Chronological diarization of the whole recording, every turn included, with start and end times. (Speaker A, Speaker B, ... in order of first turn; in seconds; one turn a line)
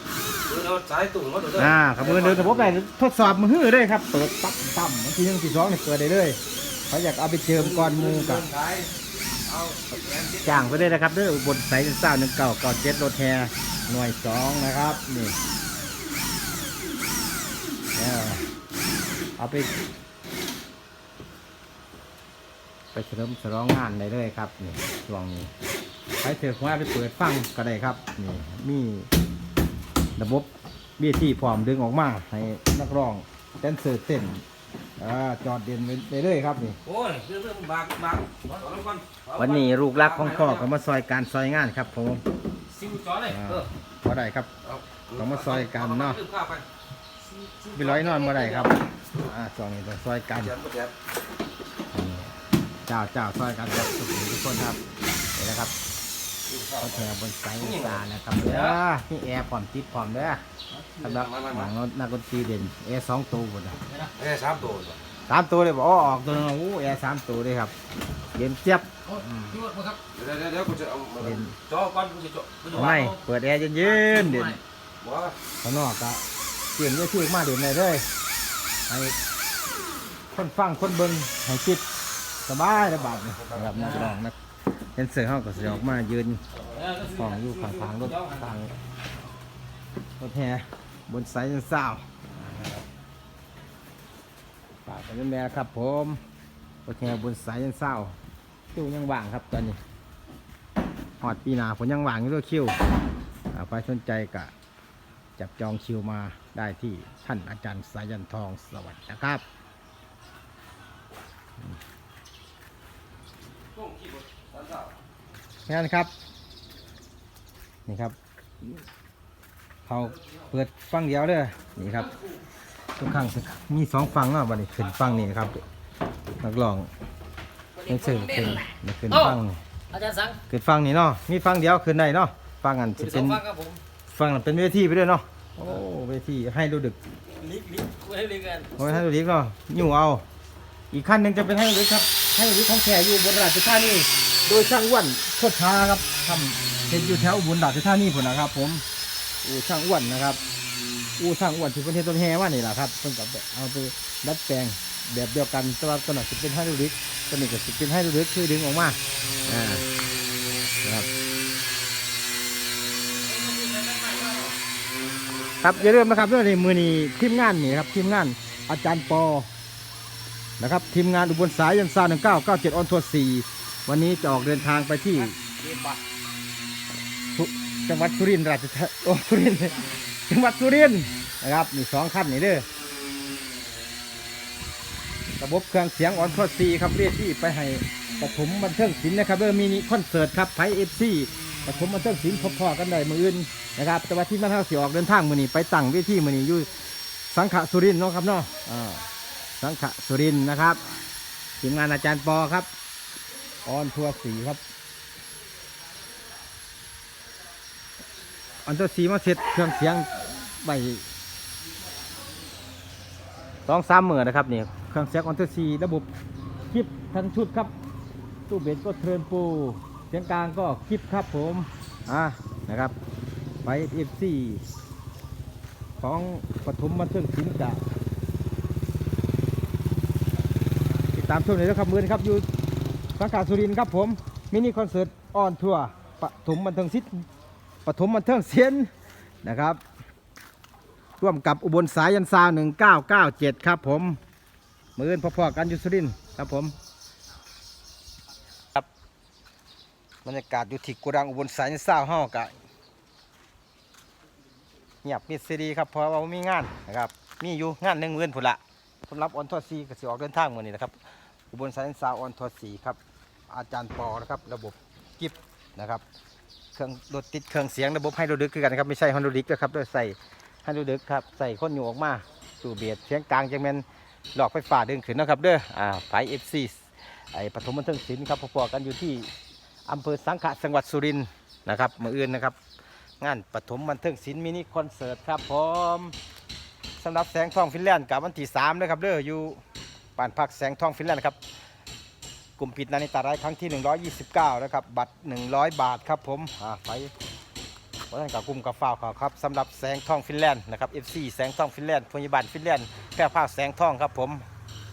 Speaker A: 0.5-2.8
Speaker B: 1.6-8.4
Speaker A: 7.5-8.9
Speaker A: 9.4-11.0
Speaker B: 10.4-15.3
Speaker B: 17.9-18.4
Speaker B: 19.4-19.7
Speaker B: 22.9-25.5
Speaker B: 26.2-29.1
Speaker B: 30.2-34.4
Speaker B: 35.0-36.8
Speaker A: 36.8-40.7
Speaker B: 39.4-42.2
Speaker C: 42.7-43.6
Speaker B: 43.2-44.5
Speaker A: 44.6-46.6
Speaker B: 45.1-46.2
Speaker C: 47.4-48.5
Speaker B: 47.7-50.5
Speaker A: 50.4-50.9
Speaker B: 51.9-54.8
Speaker B: 55.4-55.7
Speaker A: 56.5-57.1
Speaker B: 56.8-60.4
Speaker A: 57.6-58.0
Speaker C: 58.5-58.7
Speaker A: 61.0-61.7
Speaker B: 61.0-63.8
Speaker A: 64.2-65.0
Speaker B: 65.3-67.7
Speaker B: 68.3-69.6
Speaker C: 69.1-70.0
Speaker A: 70.1-72.9
Speaker B: 71.2-71.5
Speaker B: 72.7-74.6
Speaker C: 72.7-73.2
Speaker C: 73.9-74.6
Speaker A: 75.0-75.3
Speaker B: 75.6-76.2
Speaker B: 76.8-78.0
Speaker B: 78.9-79.2
Speaker B: 80.3-81.8
Speaker B: 82.4-84.3
Speaker A: 83.2-83.8
Speaker B: 85.0-86.4
Speaker A: 86.7-87.1
Speaker C: 86.9-87.2
Speaker B: 87.0-88.7
Speaker B: 90.2-92.8
Speaker B: 94.8-96.2
Speaker B: 96.8-98.2
Speaker B: 98.7-99.8
Speaker B: 101.2-102.8
Speaker B: 103.5-104.5
Speaker B: 105.4-109.4
Speaker A: 113.7-114.9
Speaker B: 115.7-116.1
Speaker B: 117.9-118.8
Speaker B: 119.8-122.1
Speaker B: 123.0-125.6
Speaker B: 126.4-126.9
Speaker B: 127.8-129.6
Speaker C: 127.9-129.3
Speaker C: 129.9-130.4
Speaker B: 130.5-133.4
Speaker C: 133.0-133.8
Speaker B: 134.1-137.0
Speaker C: 137.3-138.9
Speaker B: 138.8-140.2
Speaker B: 140.9-148.8
Speaker B: 149.4-150.4
Speaker B: 151.2-159.8
Speaker B: 160.8-161.1
Speaker C: 163.3-164.5
Speaker B: 165.6-169.5
Speaker B: 170.6-175.4
Speaker C: 175.6-176.0
Speaker B: 177.3-182.7
Speaker B: 185.4-196.7
Speaker B: 197.3-199.1
Speaker B: 199.6-200.8
Speaker B: 201.6-202.7
Speaker B: 203.6-204.6
Speaker B: 208.6-211.0
Speaker B: 213.7-216.1
Speaker B: 216.7-217.7
Speaker B: 218.5-222.9
Speaker B: 223.6-224.6
Speaker B: 226.0-227.8
Speaker B: 231.1-232.5
Speaker B: 233.2-237.2
Speaker B: 237.8-238.9
Speaker B: 239.4-239.8
Speaker B: 241.2-244.2
Speaker B: 245.0-246.7
Speaker B: 250.2-252.5
Speaker B: 255.0-261.0
Speaker B: 261.5-263.0
Speaker B: 263.5-266.0
Speaker B: 266.7-279.3
Speaker B: 279.9-282.6
Speaker B: 283.2-286.1
Speaker B: 287.0-289.6
Speaker B: 290.2-291.4
Speaker B: 292.6-297.1
Speaker B: 298.1-304.4